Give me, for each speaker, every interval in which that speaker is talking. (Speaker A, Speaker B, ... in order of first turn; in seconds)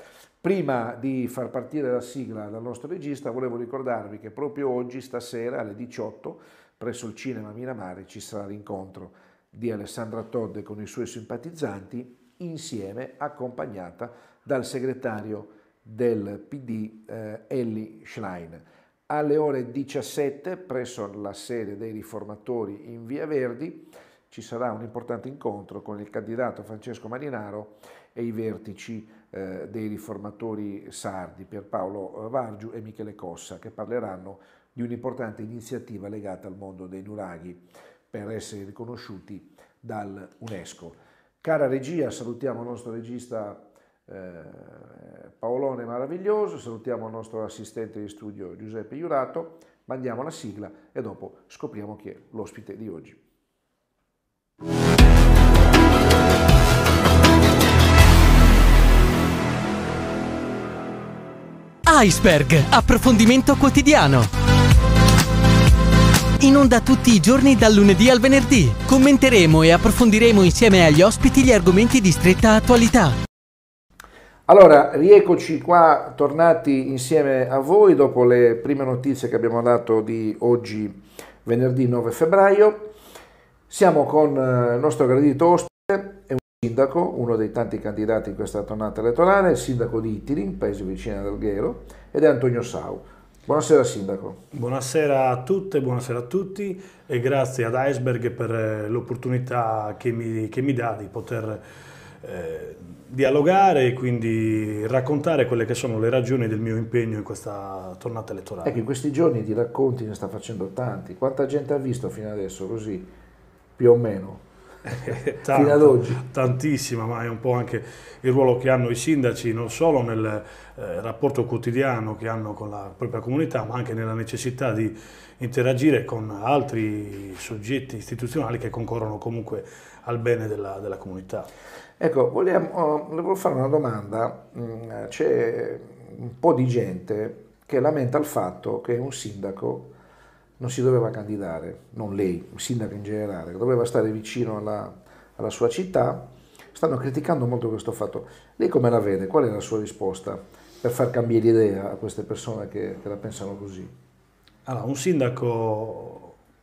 Speaker A: 0.4-53.2, 74.5-82.9, 83.7-94.4, 108.6-113.1, 113.8-116.2, 132.0-139.9, 140.6-153.9
Speaker B: 61.9-64.3, 66.4-73.2
Speaker C: 94.5-101.6, 102.2-108.8, 114.9-131.5, 154.7-156.3